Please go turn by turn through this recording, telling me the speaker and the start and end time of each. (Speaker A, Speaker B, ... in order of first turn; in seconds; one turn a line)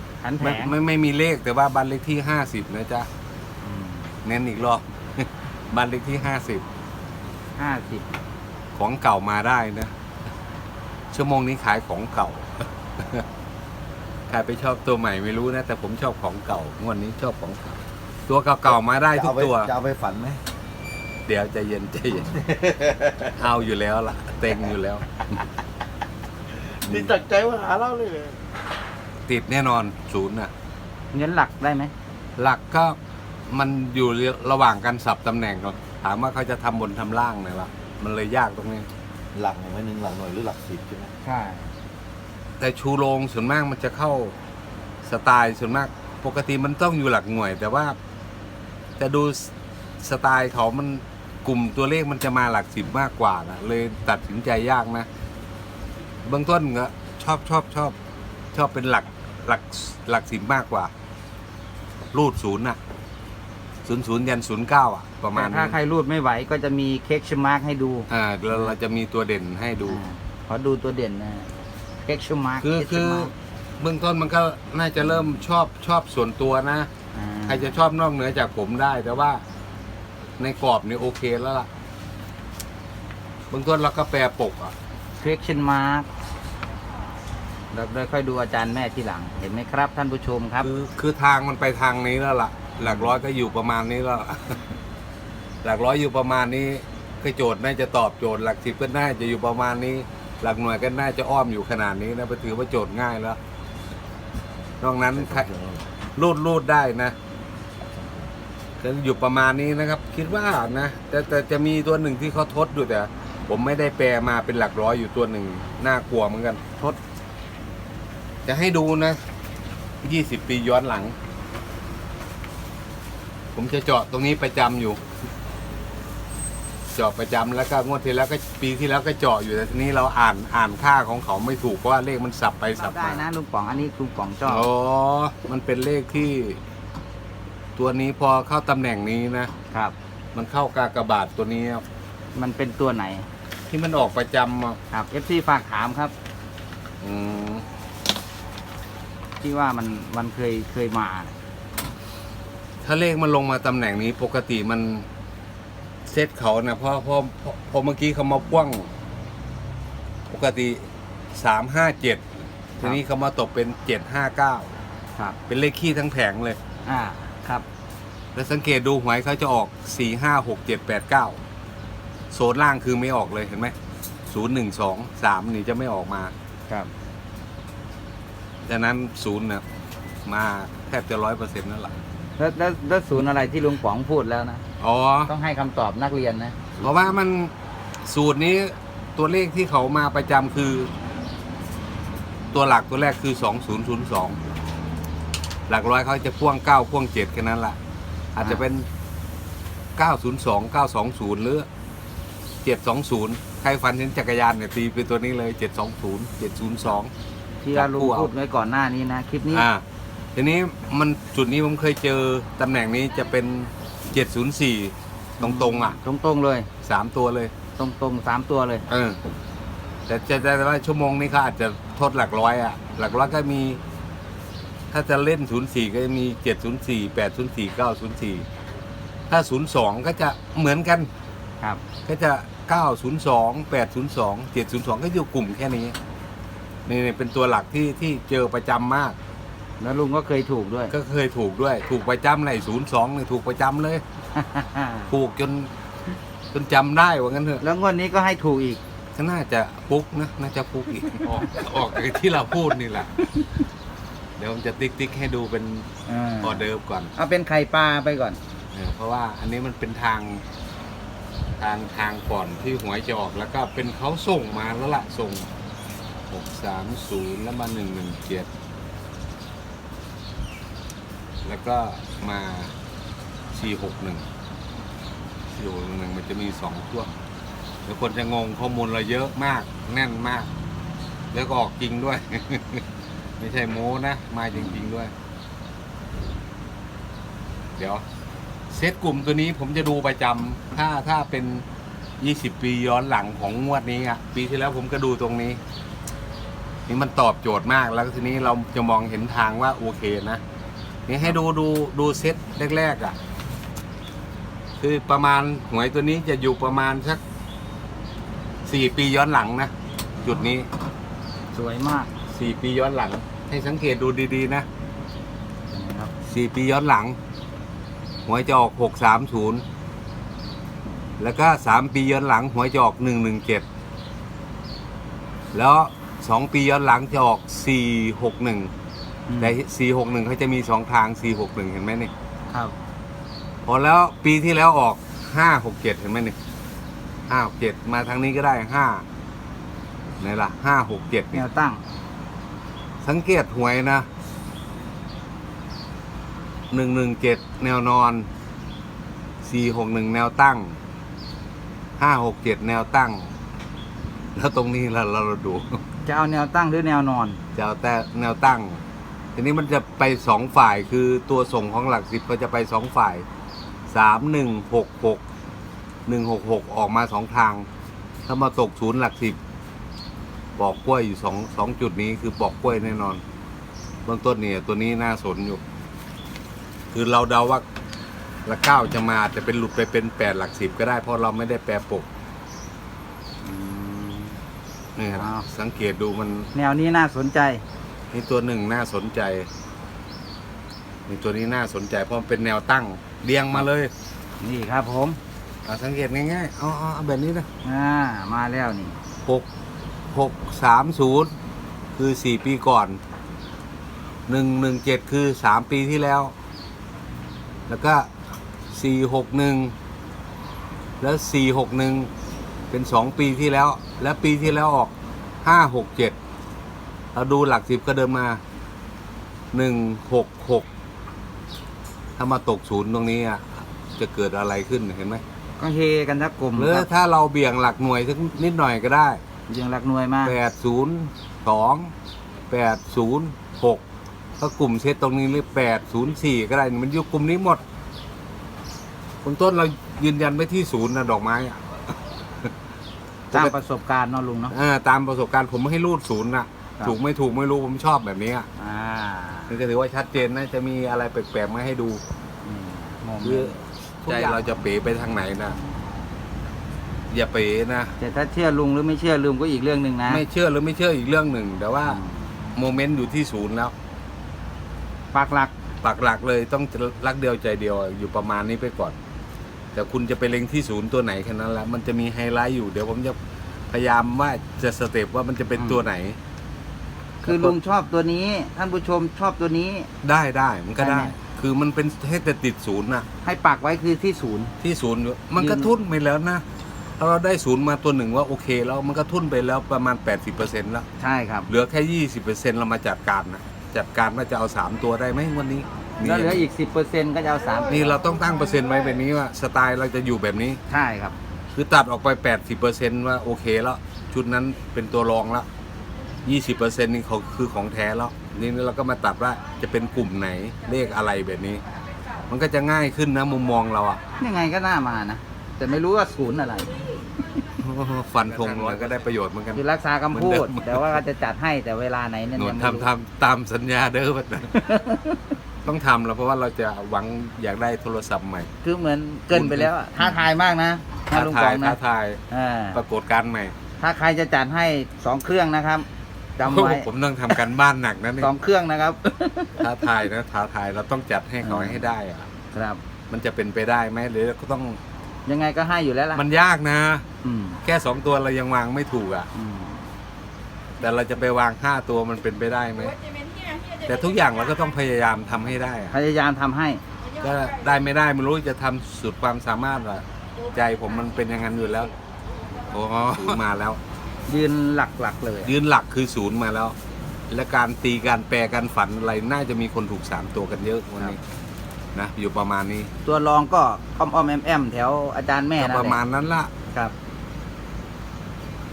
Speaker A: 0.2-0.8
Speaker B: 0.4-3.1
Speaker A: 3.6-4.2
Speaker B: 4.2-6.6
Speaker A: 7.6-8.1
Speaker B: 8.7-9.9
Speaker B: 11.1-13.2
Speaker B: 14.3-19.7
Speaker C: 19.1-20.4
Speaker B: 21.3-22.6
Speaker C: 22.7-23.0
Speaker B: 23.2-25.1
Speaker C: 26.6-28.4
Speaker B: 29.3-30.5
Speaker A: 31.1-31.9
Speaker B: 32.4-33.0
Speaker B: 33.5-38.9
Speaker C: 39.3-41.1
Speaker A: 41.2-41.7
Speaker B: 42.6-44.3
Speaker B: 45.0-48.0
Speaker B: 49.0-55.1
Speaker B: 56.2-58.0
Speaker B: 58.5-60.9
Speaker B: 62.1-62.8
Speaker B: 63.8-65.8
Speaker A: 65.3-68.7
Speaker B: 68.1-70.0
Speaker A: 69.8-71.5
Speaker A: 72.0-73.3
Speaker B: 72.6-76.9
Speaker A: 77.1-77.8
Speaker B: 77.5-79.4
Speaker B: 80.4-81.7
Speaker B: 83.5-84.7
Speaker A: 85.2-86.1
Speaker A: 87.7-90.7
Speaker B: 90.6-94.6
Speaker A: 92.8-93.2
Speaker B: 95.6-103.4
Speaker B: 104.8-105.5
Speaker C: 105.2-105.8
Speaker B: 106.2-107.2
Speaker B: 108.8-116.6
Speaker B: 118.4-119.2
Speaker B: 120.0-121.1
Speaker B: 123.5-125.0
Speaker B: 126.9-133.2
Speaker A: 132.8-134.7
Speaker B: 134.4-136.6
Speaker B: 137.8-139.5
Speaker B: 140.3-141.8
Speaker A: 142.3-143.3
Speaker B: 143.7-144.8
Speaker A: 144.9-146.1
Speaker B: 147.0-147.7
Speaker A: 149.4-151.3
Speaker B: 152.8-155.1
Speaker B: 156.1-158.9
Speaker B: 160.3-164.7
Speaker B: 165.5-166.6
Speaker A: 166.8-167.7
Speaker B: 168.3-171.4
Speaker B: 172.3-173.7
Speaker B: 174.3-176.3
Speaker B: 178.7-179.6
Speaker B: 180.2-181.9
Speaker A: 182.4-184.6
Speaker B: 184.8-185.3
Speaker A: 185.3-186.8
Speaker B: 186.8-190.9
Speaker B: 192.5-194.4
Speaker B: 195.7-197.8
Speaker B: 198.3-198.9
Speaker B: 200.0-201.7
Speaker B: 202.6-207.1
Speaker A: 207.6-209.7
Speaker B: 207.7-208.3
Speaker B: 209.5-209.8
Speaker B: 210.3-216.0
Speaker A: 215.4-216.7
Speaker B: 216.8-217.5
Speaker A: 217.8-218.9
Speaker B: 218.9-219.2
Speaker B: 220.1-223.8
Speaker B: 224.9-228.5
Speaker B: 229.3-231.1
Speaker B: 232.0-235.9
Speaker B: 236.9-239.2
Speaker A: 239.8-240.9
Speaker B: 240.9-244.0
Speaker A: 244.3-245.1
Speaker B: 245.1-245.7
Speaker B: 246.5-247.6
Speaker A: 247.6-248.8
Speaker B: 249.1-253.3
Speaker B: 254.4-255.9
Speaker A: 256.1-258.4
Speaker B: 256.4-257.1
Speaker B: 258.7-260.4
Speaker B: 261.6-265.5
Speaker B: 266.3-268.5
Speaker B: 271.4-272.7
Speaker B: 273.5-274.2
Speaker B: 275.5-277.1
Speaker B: 277.9-280.5
Speaker B: 281.3-282.8
Speaker B: 283.4-285.1
Speaker A: 284.6-284.8
Speaker B: 287.8-288.0
Speaker B: 288.7-291.6
Speaker B: 292.2-295.6
Speaker B: 296.9-300.4
Speaker B: 301.1-303.1
Speaker B: 304.8-307.2
Speaker B: 308.6-310.7
Speaker A: 311.5-312.1
Speaker B: 312.3-314.7
Speaker A: 315.7-316.1
Speaker B: 316.2-317.2
Speaker B: 318.2-319.6
Speaker B: 321.2-323.6
Speaker B: 325.5-328.7
Speaker A: 329.3-329.6
Speaker B: 329.4-332.1
Speaker A: 332.5-332.7
Speaker B: 333.6-336.4
Speaker B: 337.3-339.0
Speaker B: 340.2-341.4
Speaker A: 341.3-341.8
Speaker B: 343.0-344.1
Speaker B: 346.7-348.3
Speaker B: 349.4-350.8
Speaker B: 352.0-353.3
Speaker B: 354.3-355.8
Speaker A: 356.0-357.4
Speaker B: 357.5-358.8
Speaker B: 359.3-363.2
Speaker B: 363.9-365.2
Speaker B: 366.1-367.7
Speaker B: 368.3-369.4
Speaker B: 370.6-373.2
Speaker B: 374.1-375.6
Speaker B: 376.9-377.6
Speaker B: 378.4-382.1
Speaker A: 383.4-384.4
Speaker B: 384.9-386.5
Speaker A: 385.1-385.4
Speaker A: 386.5-387.6
Speaker B: 388.1-389.5
Speaker B: 391.1-393.9
Speaker A: 394.4-395.2
Speaker B: 395.6-397.5
Speaker A: 397.6-398.9
Speaker B: 400.1-401.3
Speaker B: 401.9-403.0
Speaker B: 404.3-406.3
Speaker B: 407.7-408.1
Speaker B: 408.7-409.7
Speaker B: 411.0-412.1
Speaker B: 412.7-414.9
Speaker B: 415.4-416.2
Speaker B: 417.1-418.4
Speaker B: 419.5-420.7
Speaker B: 422.2-425.2
Speaker A: 425.6-426.9
Speaker B: 426.6-429.2
Speaker A: 429.5-430.4
Speaker B: 430.2-431.9
Speaker B: 432.5-433.8
Speaker B: 434.4-437.6
Speaker B: 439.2-442.5
Speaker A: 443.3-444.5
Speaker B: 444.5-448.5
Speaker A: 448.6-449.6
Speaker B: 449.5-452.0
Speaker A: 452.4-454.4
Speaker B: 453.2-455.6
Speaker B: 457.1-457.9
Speaker A: 458.0-460.2
Speaker B: 460.1-462.0
Speaker A: 461.8-462.3
Speaker B: 462.5-463.7
Speaker A: 465.1-465.5
Speaker B: 465.8-469.0
Speaker B: 469.7-473.2
Speaker B: 473.7-476.2
Speaker A: 477.2-479.9
Speaker B: 477.2-477.5
Speaker B: 480.0-483.1
Speaker A: 480.8-481.1
Speaker A: 483.2-484.5
Speaker B: 484.6-486.4
Speaker A: 485.4-485.7
Speaker B: 487.0-490.9
Speaker A: 491.0-491.5
Speaker B: 491.5-496.4
Speaker A: 496.0-498.0
Speaker B: 497.6-500.6
Speaker A: 500.7-501.1
Speaker B: 501.5-505.5
Speaker B: 506.2-511.6
Speaker B: 512.3-514.0
Speaker A: 514.2-516.7
Speaker B: 517.5-521.0
Speaker A: 519.5-522.9
Speaker B: 522.4-524.8
Speaker A: 524.7-525.3
Speaker B: 525.6-528.5
Speaker A: 528.6-531.8
Speaker B: 529.3-530.2
Speaker B: 531.1-532.2
Speaker A: 532.3-532.8
Speaker B: 532.7-533.5
Speaker A: 533.8-537.4
Speaker B: 536.4-538.3
Speaker A: 538.2-539.9
Speaker B: 539.6-542.3
Speaker A: 541.4-541.9
Speaker A: 542.5-542.8
Speaker B: 543.1-544.8
Speaker A: 545.2-546.2
Speaker B: 546.1-547.0
Speaker A: 547.2-547.6
Speaker B: 547.6-549.3
Speaker A: 549.3-549.8
Speaker B: 550.8-553.0
Speaker B: 553.8-556.0
Speaker A: 555.9-556.8
Speaker B: 557.2-561.9
Speaker B: 562.7-563.8
Speaker A: 564.3-565.5
Speaker B: 565.4-566.8
Speaker B: 567.3-571.2
Speaker B: 571.9-572.9
Speaker A: 573.0-576.0
Speaker B: 575.6-576.5